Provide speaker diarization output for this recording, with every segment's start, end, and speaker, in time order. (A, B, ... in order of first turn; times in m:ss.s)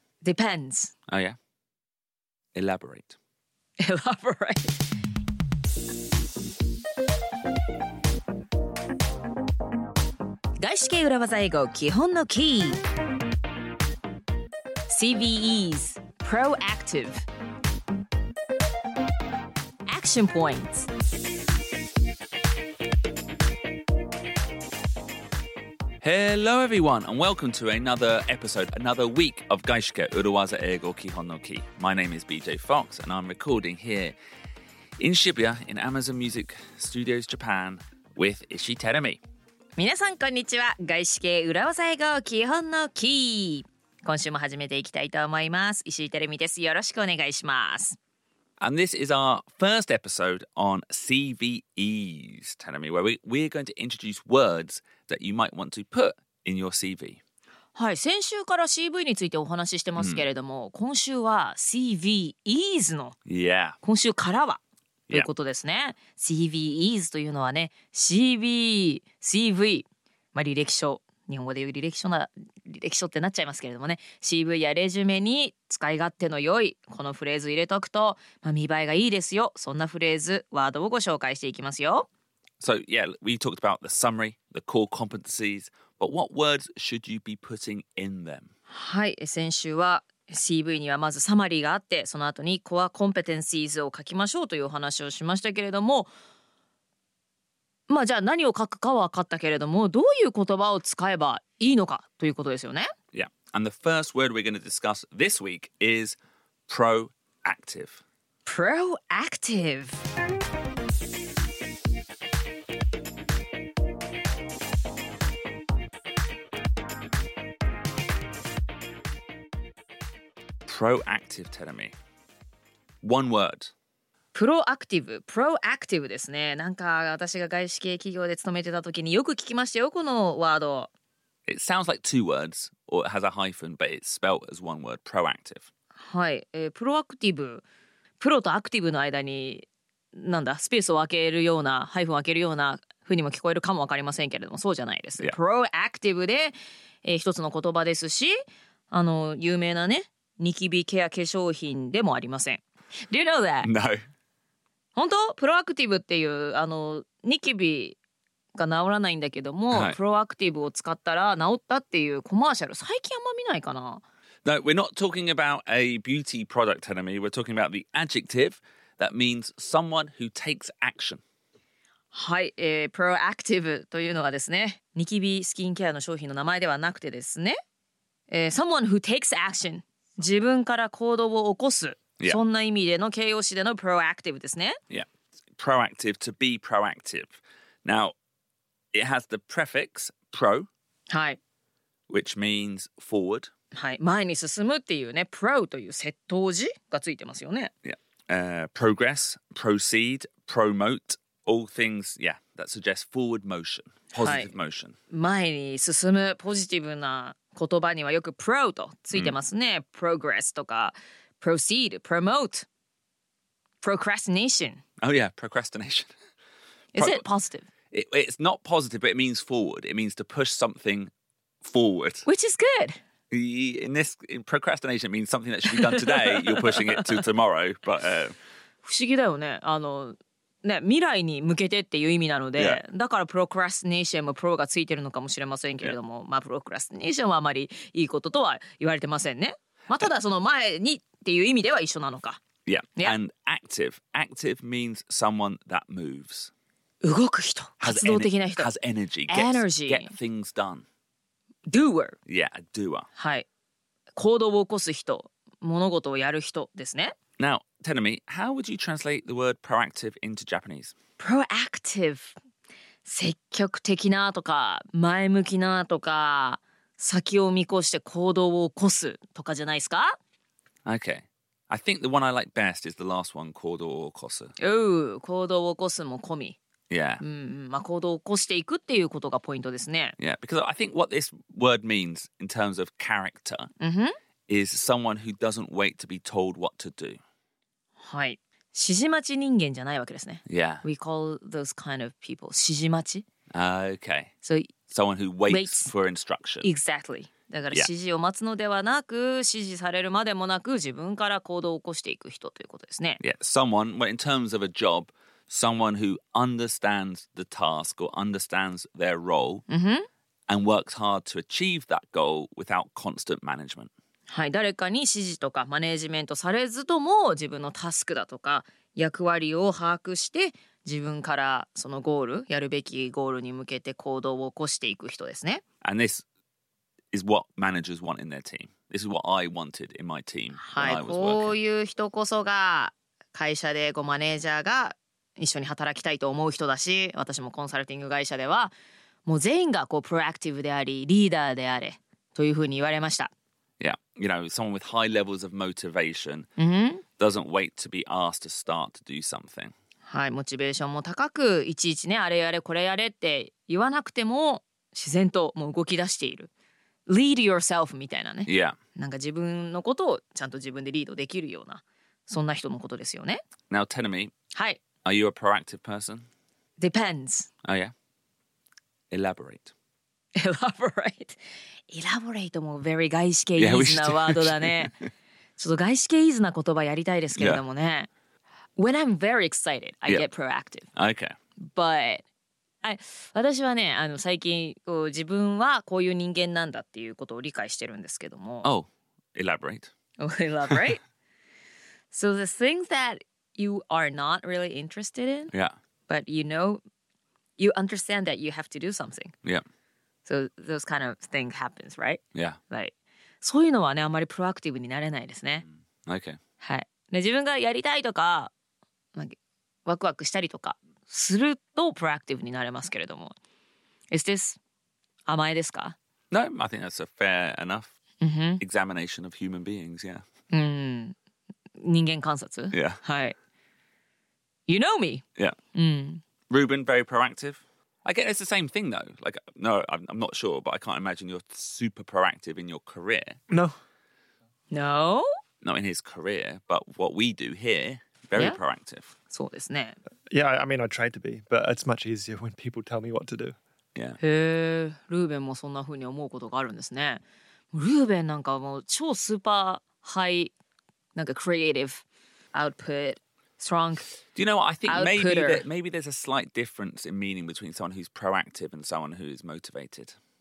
0:00.2-0:00.9 A
0:01.1-0:01.4 B
0:02.5-0:03.2 B
0:03.8-0:04.8 A
0:10.6-0:12.8 A
0:14.9-0:17.2 A
0:19.9-0:20.9 A
0:26.0-0:34.1 B
0:35.0-0:39.2 B
0:39.8-0:48.0 A
0:48.6-0:57.2 B
0:57.7-1:03.2 A
1:00.0-1:00.2 B
1:03.3-1:03.8 B
1:03.8-1:04.6 A
1:05.1-1:22.1 A
1:22.6-1:28.5 B
1:28.7-1:36.1 A
1:37.9-1:42.9 A
1:43.1-1:48.0 B
1:48.4-1:50.0 A
2:00.6-2:01.9 B
2:03.0-2:03.7 B
2:04.3-2:10.9 A
2:11.5-2:15.7 B
2:16.0-2:17.6 A
2:18.2-2:28.4 A
2:28.9-2:33.7 A
2:33.6-2:34.0 B
2:35.0-2:38.0 A
2:38.5-2:44.0 A
2:39.7-2:40.0 B
2:44.4-2:51.2 B
2:52.1-2:57.6 A
2:58.3-3:04.8 A
3:04.9-3:08.1 B
3:08.9-3:10.7 B
3:11.1-3:11.4 A
3:12.1-3:13.5 B
3:13.7-3:17.7 A
3:17.8-3:25.0 B
3:24.2-3:24.5 A
3:25.1-3:32.6 A
3:33.8-3:34.8 A
3:35.0-3:36.1 B
3:36.9-3:37.7 A
3:37.0-3:37.2 B
3:37.9-3:41.1 B
3:41.6-3:42.2 B
3:42.2-3:43.0 A
3:43.3-3:48.3 B
3:45.6-3:47.2 A
3:48.8-4:02.4 A
4:02.6-4:06.5 B
4:07.0-4:08.7 A
4:07.8-4:10.8 B
4:09.3-4:10.1 A
4:11.7-4:12.2 A
4:12.3-4:13.1 B
4:13.2-4:13.4 A
4:14.2-4:17.1 A
4:17.4-4:20.9 B
4:21.2-4:22.4 A
4:23.0-4:30.2 A
4:30.8-4:34.5 B
4:34.6-4:36.6 A
4:36.9-4:37.2 B
4:37.2-4:40.2 A
4:40.2-4:43.7 B
4:43.8-4:44.1 A
4:44.5-4:47.2 B
4:48.0-4:53.2 A
4:50.5-4:50.8 B
4:53.5-4:54.3 B
4:54.4-4:54.7 A
4:54.9-4:56.7 B
4:55.5-4:55.9 A
4:56.6-5:03.2 A
5:03.2-5:09.6 B
5:09.7-5:10.1 A
5:10.5-5:13.9 B
5:14.3-5:25.6 A
5:25.8-5:26.2 B
5:27.1-5:31.6 B
5:30.6-5:38.7 A
5:39.2-5:43.3 A
5:43.8-5:46.5 B
5:46.6-5:47.0 A
5:47.2-5:49.7 B
5:50.1-5:56.5 A
5:57.1-6:03.4 A
5:58.4-5:58.8 B
6:03.7-6:04.3 B
6:04.5-6:04.8 A
6:05.0-6:06.2 B
6:06.8-6:07.5 A
6:07.6-6:07.9 B
6:09.1-6:09.7 B
6:10.4-6:15.0 A
6:13.6-6:15.1 B
6:15.6-6:18.1 A
6:17.3-6:17.6 B
6:18.8-6:20.9 A
6:21.0-6:21.3 B
6:21.6-6:22.2 A
6:22.8-6:28.7 A
6:28.6-6:29.9 B
6:30.2-6:31.0 A
6:32.1-6:35.5 A
6:36.1-6:36.8 A
6:37.6-6:39.3 A
6:40.2-6:45.6 A
6:46.0-6:46.4 B
6:46.6-6:48.5 A
6:49.1-6:53.3 A
6:54.1-6:54.6 A
6:55.2-6:56.0 A
6:56.3-6:57.9 B
6:58.2-6:58.6 A
6:58.6-7:00.2 B
7:00.5-7:01.1 A
7:01.8-7:03.4 A
7:02.7-7:03.0 B
7:04.7-7:06.2 A
7:06.5-7:13.4 B
7:14.7-7:15.2 A
7:15.6-7:19.1 B
7:19.3-7:20.0 A
7:20.3-7:23.6 C
7:24.2-7:27.2 A
7:27.7-7:30.5 A
7:31.2-7:32.0 A
7:32.5-7:34.1 A
7:34.3-7:40.2 B
7:34.9-7:35.6 A